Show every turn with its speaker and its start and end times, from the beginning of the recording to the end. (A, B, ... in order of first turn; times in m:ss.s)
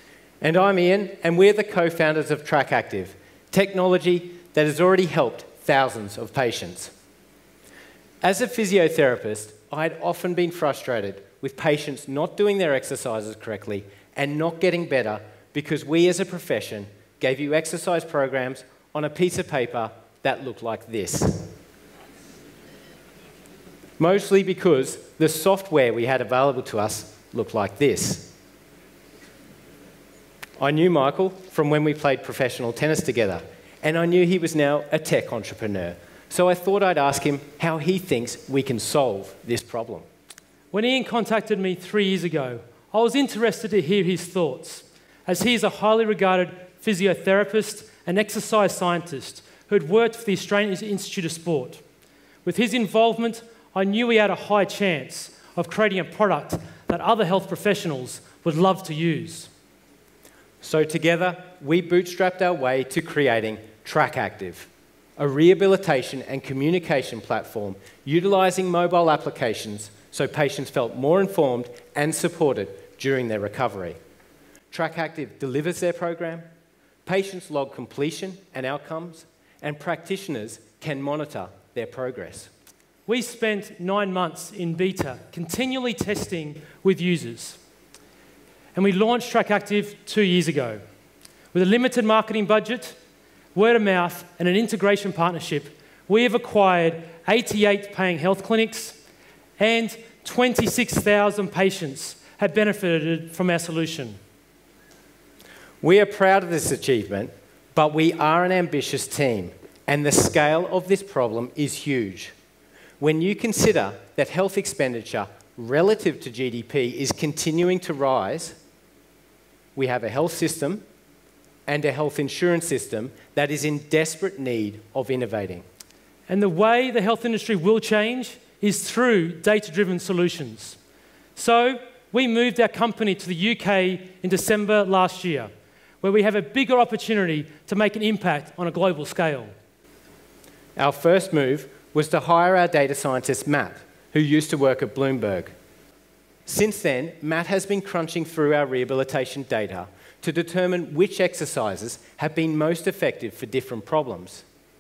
0:00.4-0:06.9 A
0:08.2-0:21.5 A
0:24.0-0:28.3 A
0:30.6-0:40.0 A
0:40.7-0:51.8 B
0:52.4-0:59.5 B
1:00.6-1:14.0 A
1:14.7-1:16.4 A
1:17.0-1:22.5 A
1:23.0-1:27.6 B
1:28.7-1:30.8 B
1:31.5-1:33.0 B
1:33.5-1:39.0 B
1:39.6-1:44.2 B
1:45.8-1:52.3 A
1:53.0-1:58.6 A
1:59.8-2:00.8 A
2:01.7-2:05.6 A
2:06.3-2:10.8 B
2:11.3-2:15.5 B
2:16.0-2:19.5 B
2:20.8-2:25.5 A
2:26.4-2:34.4 A